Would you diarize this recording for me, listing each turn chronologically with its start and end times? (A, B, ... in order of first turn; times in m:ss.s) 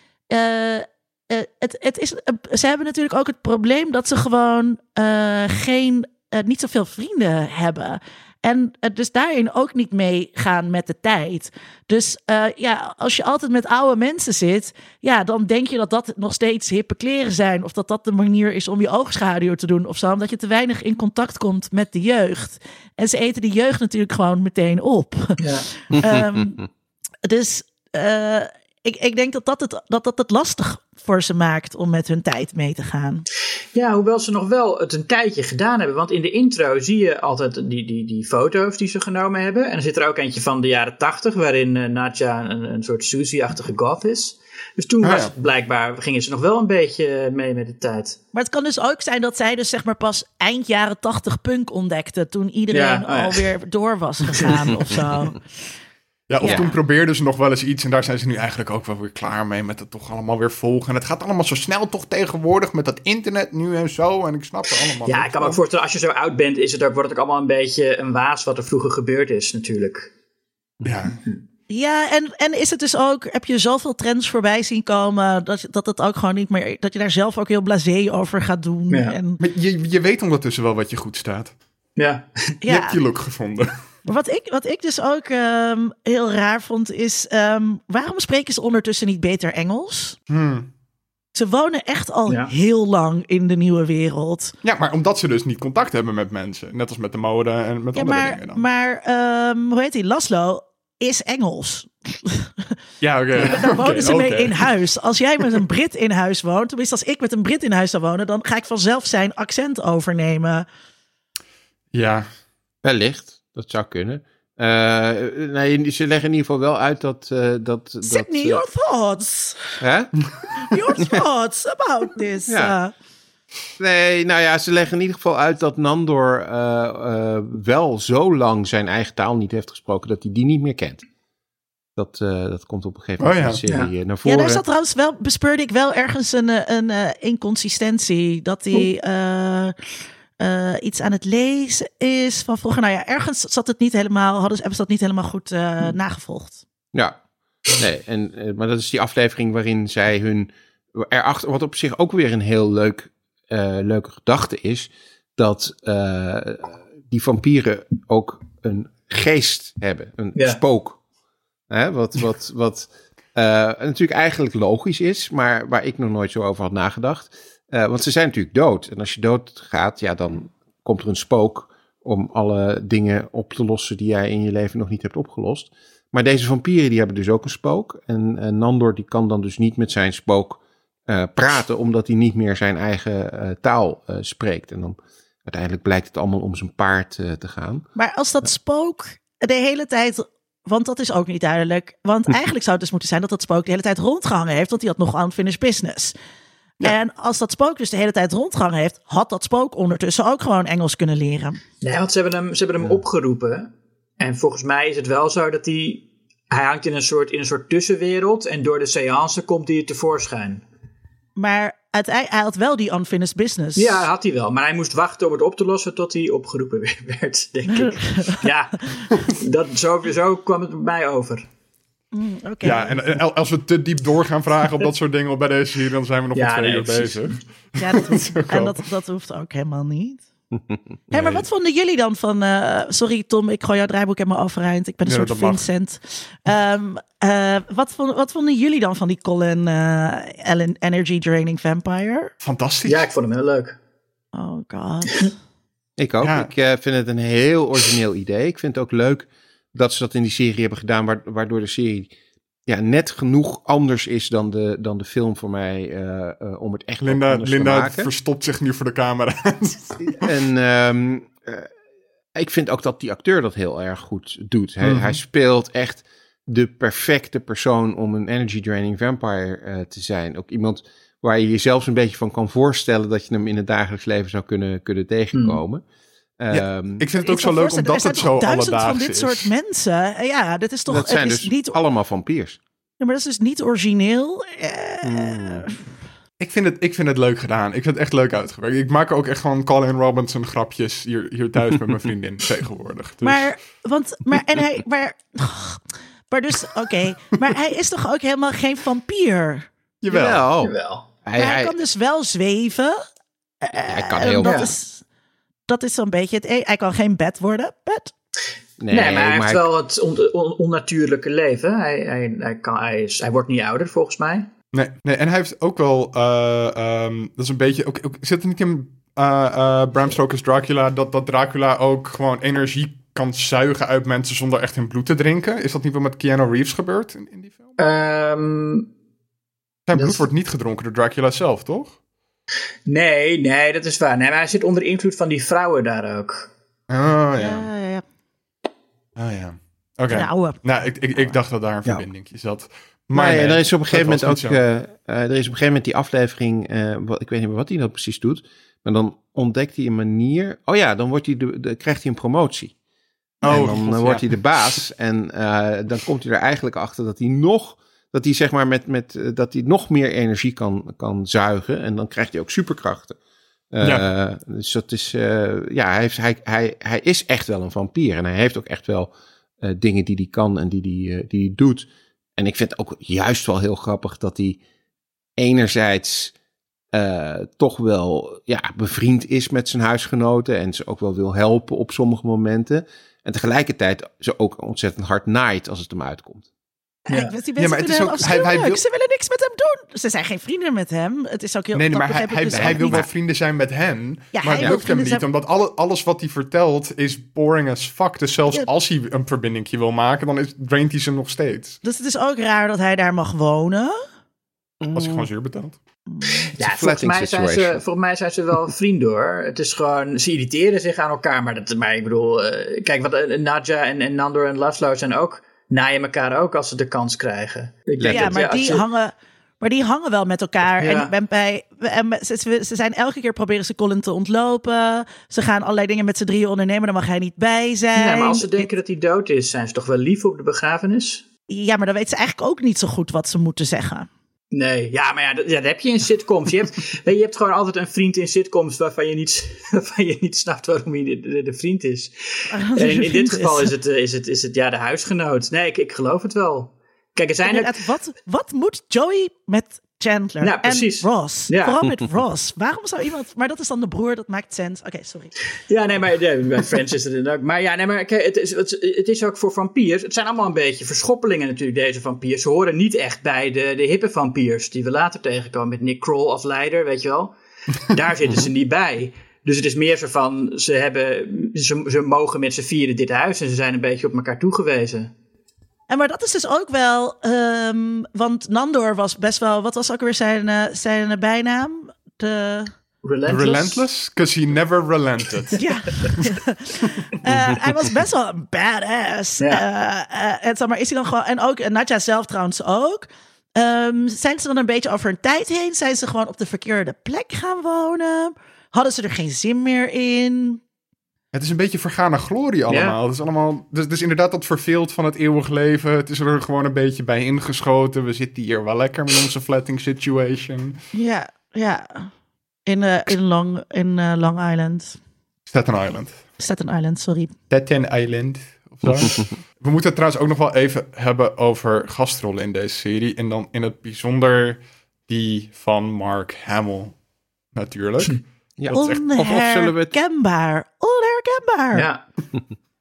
0:00.3-0:25.4 A
0:25.4-0:25.7 B
0:25.9-0:26.6 A
0:25.9-0:26.6 C
0:27.2-0:33.2 A
0:33.7-0:48.2 B
0:45.0-0:45.3 D
0:48.3-0:55.4 A
0:52.7-0:53.4 B
0:56.3-1:05.6 D
0:56.4-0:56.7 A
1:05.0-1:10.1 B
1:10.8-1:11.2 D
1:11.7-1:19.4 A
1:18.9-1:19.2 B
1:19.4-1:21.5 D
1:22.0-1:22.5 B
1:22.6-1:23.0 A
1:22.6-1:23.7 D
1:24.1-1:30.2 A
1:30.3-1:30.7 D
1:31.3-1:34.5 A
1:34.6-1:38.6 D
1:37.9-1:42.7 A
1:43.0-1:44.7 D
1:43.4-1:50.6 A
1:51.9-1:52.3 D
1:52.8-1:58.6 C
1:58.0-1:59.8 A
1:59.8-2:00.1 C
2:00.6-2:02.9 A
2:02.5-2:02.8 C
2:03.8-2:11.0 C
2:12.0-2:14.6 C
2:13.2-2:13.6 D
2:14.2-2:19.7 A
2:20.4-2:26.6 A
2:27.7-2:41.0 C
2:41.7-3:07.9 C
3:08.0-3:16.1 A
3:16.8-3:21.6 A
3:21.8-3:30.6 B
3:31.4-3:34.0 A
3:33.8-3:41.5 B
3:37.7-3:39.0 A
3:42.1-3:43.0 A
3:42.6-3:48.8 D
3:46.3-3:47.4 B
3:47.8-3:50.2 A
3:51.1-3:51.4 D
3:51.1-4:02.3 A
3:55.0-3:55.7 D
4:02.4-4:03.1 D
4:02.8-4:03.8 B
4:04.3-4:05.3 A
4:06.0-4:12.1 C
4:06.2-4:06.5 D
4:12.7-4:18.1 C
4:17.0-4:20.2 D
4:20.0-4:21.7 C
4:22.3-4:35.8 C
4:24.8-4:25.2 D
4:35.3-4:35.6 B
4:36.4-4:37.1 C
4:36.5-4:39.5 D
4:37.2-4:41.8 A
4:40.9-4:42.6 C
4:43.0-4:45.9 A
4:45.0-4:45.7 C
4:46.4-4:53.5 D
4:53.2-4:59.7 A
5:00.0-5:00.5 D
5:00.1-5:01.7 C
5:00.6-5:01.0 B
5:01.4-5:03.0 A
5:03.6-5:05.0 A
5:03.9-5:04.7 C
5:04.4-5:04.7 B
5:05.7-5:08.1 A
5:08.8-5:09.6 C
5:08.9-5:14.5 B
5:14.7-5:27.7 D
5:27.8-5:28.9 B
5:29.9-5:32.0 D
5:29.9-5:30.2 B
5:32.8-5:36.5 B
5:36.9-5:37.7 D
5:37.4-5:38.0 A
5:39.2-5:44.6 D
5:40.1-5:40.6 A
5:43.1-5:52.7 C
5:53.4-6:03.2 C
5:53.4-5:54.8 D
6:03.7-6:14.6 C
6:15.4-6:16.3 C
6:16.9-6:26.4 C
6:27.1-6:33.0 A
6:27.1-6:27.3 B
6:27.6-6:28.8 D
6:31.7-6:41.8 D
6:32.5-6:33.1 C
6:34.4-6:35.2 A
6:41.8-6:43.9 A
6:44.8-6:45.2 C
6:44.9-6:45.8 D
6:46.1-6:46.5 A
6:46.6-6:47.8 C
6:46.6-6:58.8 B
6:58.0-6:58.4 C
6:58.0-7:08.7 A
7:00.8-7:01.1 B
7:07.9-7:11.2 B
7:11.5-7:14.1 A
7:14.5-7:27.8 B
7:22.5-7:23.7 A
7:27.4-7:35.4 A
7:30.4-7:31.8 B
7:35.7-7:55.1 B
7:55.9-8:02.7 A
8:03.0-8:03.8 B
8:03.2-8:06.2 D
8:05.6-8:20.6 A
8:07.3-8:07.6 C
8:21.3-8:30.8 D
8:22.7-8:23.0 B
8:30.9-8:32.1 A
8:32.6-8:35.0 A
8:35.5-8:36.2 D
8:36.4-8:37.3 A
8:37.5-8:47.0 D
8:47.5-8:49.0 D
8:48.6-8:49.9 C
8:48.7-8:51.9 A
8:51.7-8:52.0 B